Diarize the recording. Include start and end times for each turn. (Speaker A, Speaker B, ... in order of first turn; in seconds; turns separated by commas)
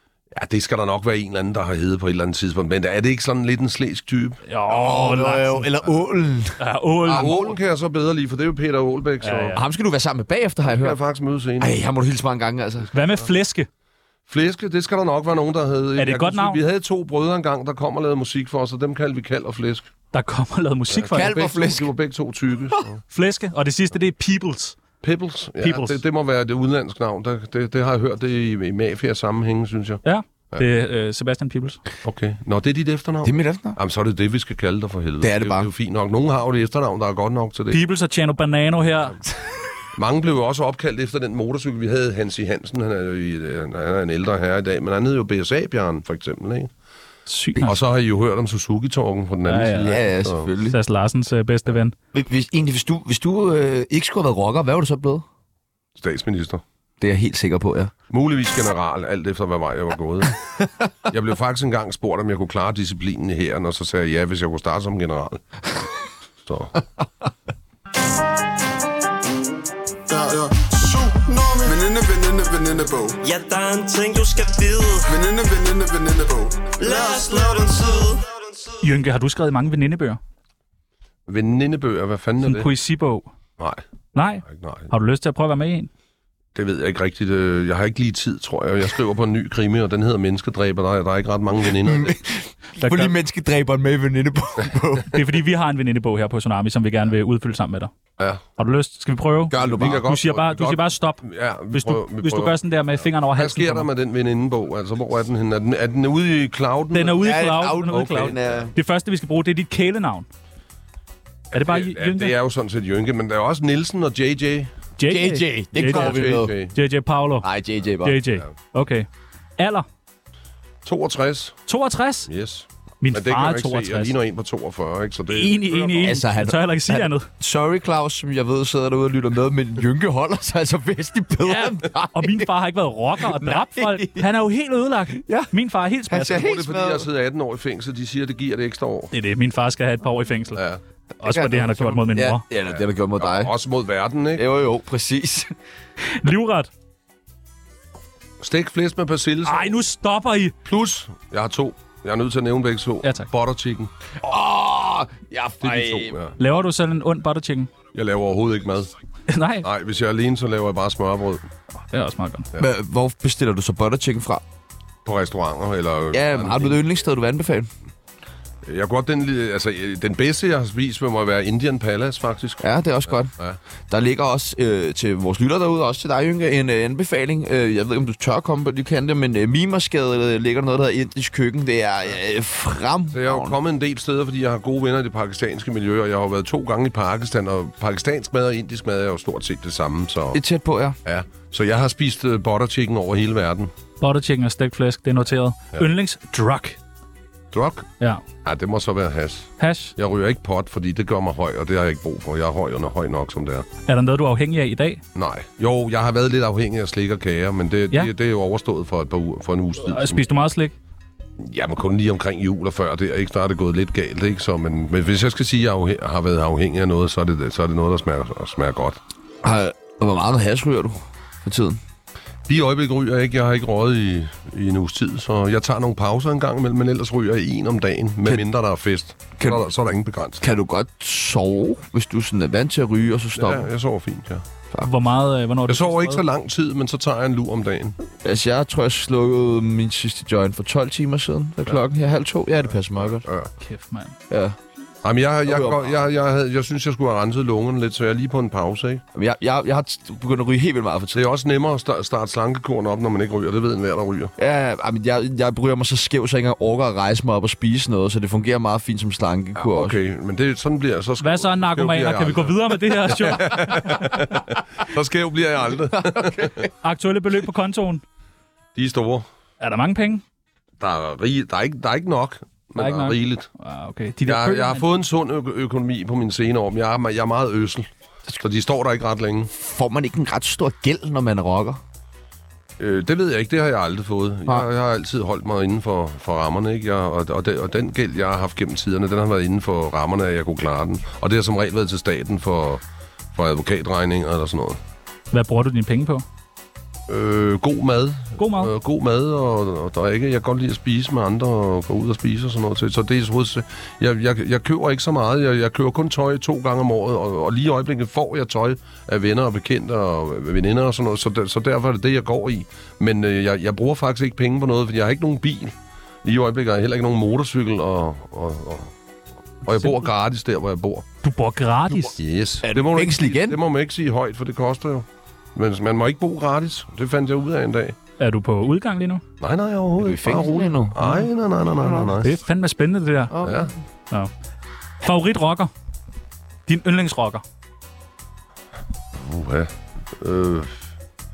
Speaker A: 0.3-4.4, Speaker B: 4.5-5.7, Speaker C: 4.7-7.5, Speaker B: 6.6-7.4, Speaker A: 7.1-9.6, Speaker B: 9.2-9.6, Speaker C: 9.5-11.0, Speaker A: 10.6-11.7, Speaker C: 11.6-12.9, Speaker B: 12.9-13.7, Speaker A: 14.3-19.9, Speaker B: 16.0-16.6, Speaker B: 20.1-21.3, Speaker A: 20.9-23.0, Speaker C: 21.1-21.9, Speaker B: 23.1-24.8, Speaker A: 25.0-30.6, Speaker B: 25.6-26.0, Speaker B: 30.0-31.8, Speaker A: 32.0-37.8, Speaker C: 33.2-33.8, Speaker C: 35.2-35.7, Speaker B: 37.7-39.2, Speaker A: 39.9-46.7, Speaker B: 47.3-47.8, Speaker A: 47.6-50.5, Speaker B: 49.5-50.0, Speaker C: 49.9-50.8, Speaker B: 50.6-51.9, Speaker C: 52.1-55.2, Speaker A: 56.0-56.6, Speaker C: 57.0-57.9, Speaker A: 58.1-60.4, Speaker A: 61.1-65.4, Speaker A: 66.4-66.8, Speaker D: 70.1-73.2, Speaker E: 73.2-75.1, Speaker D: 75.1-77.7, Speaker E: 76.8-78.4, Speaker B: 78.8-80.2, Speaker A: 81.3-82.7, Speaker B: 82.4-83.3, Speaker B: 84.1-85.9, Speaker A: 84.4-84.9, Speaker A: 86.5-92.2, Speaker C: 91.8-95.2, Speaker B: 92.8-93.1, Speaker B: 95.1-97.9, Speaker B: 98.6-103.9, Speaker C: 99.5-100.0, Speaker A: 99.6-102.5, Speaker A: 103.3-107.2, Speaker B: 106.9-110.3, Speaker C: 107.2-108.7, Speaker A: 108.0-108.5, Speaker B: 111.5-112.3, Speaker A: 111.5-114.7, Speaker B: 115.0-117.5, Speaker C: 115.0-116.5, Speaker A: 115.8-116.8, Speaker C: 117.4-118.2, Speaker B: 118.0-119.9, Speaker A: 120.8-121.6, Speaker B: 121.7-122.3, Speaker A: 122.3-126.2, Speaker B: 123.0-124.1, Speaker B: 125.3-127.3, Speaker C: 126.0-132.5, Speaker B: 131.4-136.4, Speaker C: 133.2-134.2, Speaker C: 136.1-137.1, Speaker A: 136.3-139.1, Speaker B: 139.1-140.6, Speaker A: 140.5-140.8, Speaker B: 141.2-142.4, Speaker C: 141.2-143.5, Speaker A: 142.7-144.4, Speaker C: 144.3-145.5, Speaker B: 146.0-146.7, Speaker A: 148.4-149.8, Speaker B: 149.4-150.5, Speaker A: 150.6-153.9, Speaker B: 153.0-153.3, Speaker C: 154.2-156.2, Speaker A: 155.6-156.3, Speaker B: 156.4-157.7, Speaker A: 157.9-158.9, Speaker B: 159.3-159.7, Speaker A: 159.6-161.4, Speaker B: 161.9-162.5, Speaker C: 162.6-164.4, Speaker A: 165.0-166.8, Speaker C: 166.1-167.7, Speaker A: 168.6-173.6, Speaker C: 172.6-173.3, Speaker C: 173.9-183.6, Speaker A: 183.1-190.4, Speaker C: 190.3-191.0, Speaker A: 191.0-193.7, Speaker B: 194.0-196.8, Speaker A: 197.5-197.9, Speaker A: 198.4-203.7, Speaker B: 199.6-199.9, Speaker B: 203.9-205.0, Speaker A: 205.1-210.2, Speaker B: 209.8-210.7, Speaker A: 211.4-219.0, Speaker C: 219.4-221.8, Speaker A: 222.5-230.4, Speaker C: 230.4-233.7, Speaker A: 233.3-234.4, Speaker B: 234.8-236.2, Speaker A: 235.7-238.0, Speaker C: 238.2-243.2, Speaker A: 242.9-243.5, Speaker B: 243.6-244.2, Speaker C: 244.3-244.6, Speaker A: 245.0-249.0, Speaker C: 245.4-246.0, Speaker C: 249.1-251.2, Speaker A: 251.1-254.3, Speaker C: 254.4-259.9, Speaker A: 259.6-266.7, Speaker B: 261.2-264.3, Speaker C: 266.1-266.5, Speaker B: 266.8-268.0, Speaker A: 268.8-269.2, Speaker B: 269.6-270.2, Speaker A: 270.8-273.5, Speaker B: 272.8-274.8, Speaker A: 274.2-279.5, Speaker C: 279.5-281.8, Speaker A: 282.8-292.8, Speaker A: 293.3-294.8, Speaker B: 295.3-296.2, Speaker A: 297.1-315.7, Speaker B: 298.4-298.7, Speaker A: 316.2-318.9, Speaker A: 319.6-321.0, Speaker B: 321.2-322.1, Speaker A: 322.1-328.0, Speaker C: 322.6-323.6, Speaker B: 328.2-329.2, Speaker A: 329.4-332.3, Speaker C: 330.0-331.1, Speaker B: 332.2-333.4, Speaker C: 333.3-333.7, Speaker A: 333.4-333.7, Speaker B: 335.0-335.7, Speaker B: 336.7-337.4, Speaker A: 339.1-340.7